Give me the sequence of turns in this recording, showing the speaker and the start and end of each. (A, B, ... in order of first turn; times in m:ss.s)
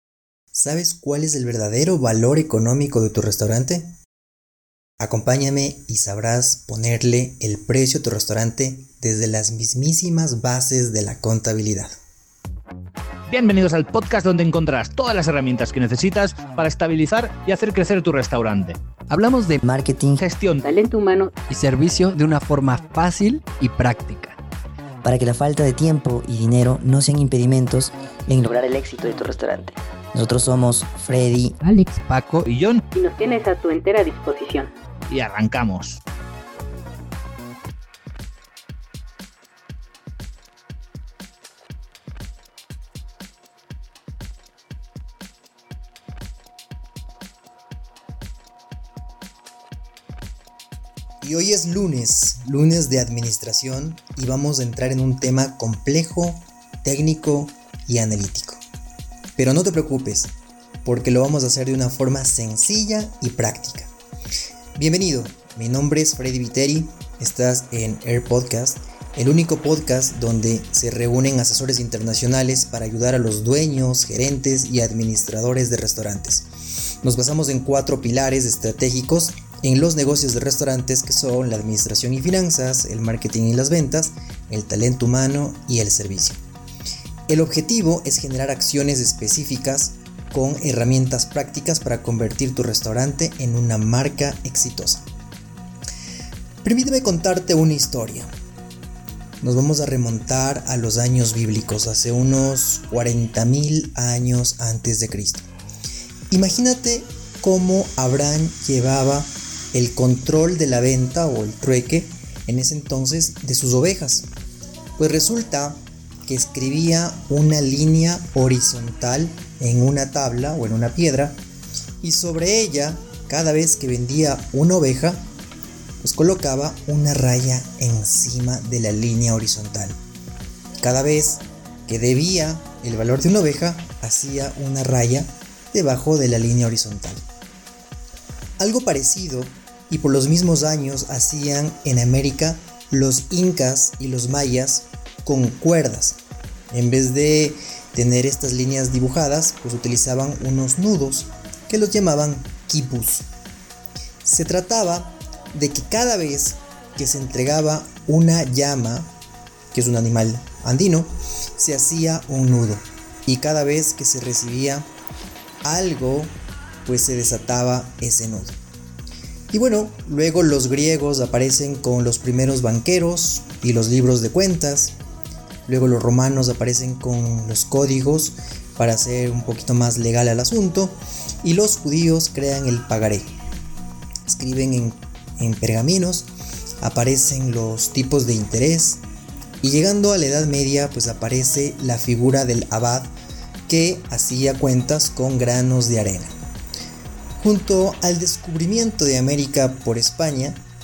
0:00.5-0:03.9 A
0:05.0-0:12.0 A
0:13.3-0:18.8 B
0:19.1-0:20.2 C
0:19.2-0:19.6 D
0:20.1-0:20.7 B
0:20.6-0:21.3 E
0:21.5-0:24.4 D
0:23.1-0:24.2 C
0:25.0-0:31.6 C
0:31.6-0:32.5 D
0:32.4-0:32.8 B
0:33.0-0:34.7 E
0:35.1-0:36.0 B
0:51.2-0:58.6 A
0:59.4-1:00.3 A
1:00.8-1:03.9 A
1:04.8-1:16.5 A
1:17.0-1:26.4 A
1:27.3-1:35.0 A
1:36.6-1:38.3 A
1:39.4-1:45.5 A
1:46.3-1:54.3 A
1:55.0-2:01.4 A
2:02.0-2:05.3 A
2:06.0-2:10.0 A
2:10.8-2:17.2 A
2:18.6-2:26.2 A
2:26.7-2:33.3 A
2:34.2-2:39.1 A
2:39.7-2:44.9 A
2:45.6-2:48.6 A
2:49.5-2:55.0 A
2:55.7-3:03.3 A
3:04.2-3:06.3 A
3:06.8-3:09.0 A
3:09.6-3:13.1 A
3:13.7-3:16.4 A
3:17.4-3:20.6 A